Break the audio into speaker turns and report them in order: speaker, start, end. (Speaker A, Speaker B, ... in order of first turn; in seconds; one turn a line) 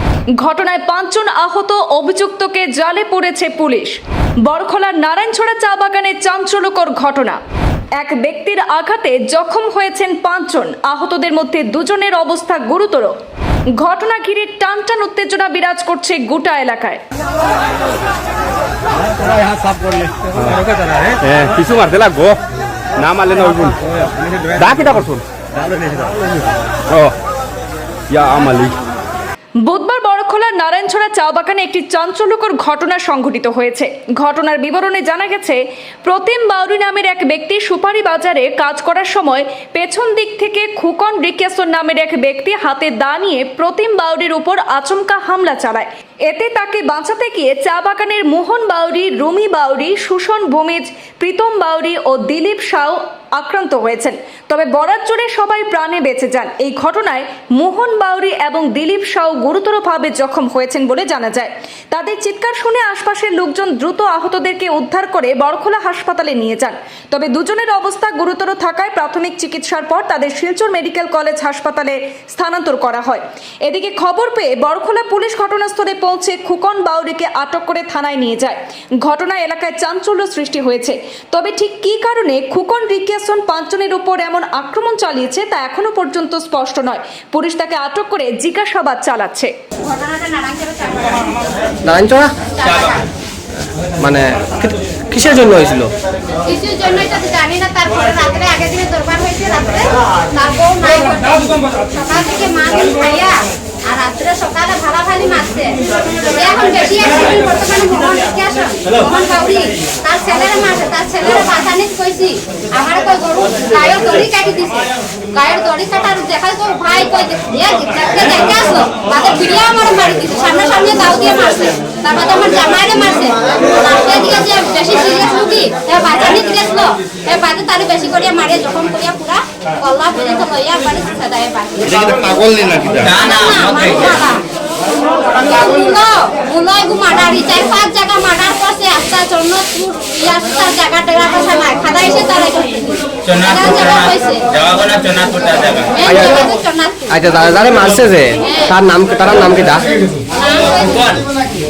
Speaker A: 0.4-7.4
Speaker A: 8.0-13.1
Speaker A: 13.8-17.0
Speaker B: 19.6-20.6
Speaker B: 21.2-22.4
Speaker B: 23.0-23.8
Speaker B: 24.5-26.1
Speaker B: 26.9-27.1
Speaker B: 28.1-28.8
Speaker A: 29.6-89.5
Speaker C: 89.8-91.6
Speaker D: 91.9-92.3
Speaker C: 92.5-93.1
Speaker D: 94.0-95.9
Speaker C: 96.4-105.8
Speaker C: 106.3-132.2
Speaker B: 131.9-133.2
Speaker E: 133.0-134.3
Speaker C: 133.2-134.4
Speaker C: 135.3-144.4
Speaker E: 143.2-146.0
Speaker C: 145.9-147.1
Speaker D: 146.1-146.5
Speaker D: 147.1-149.9
Speaker C: 148.4-148.7
Speaker C: 150.3-151.1
Speaker E: 150.9-151.2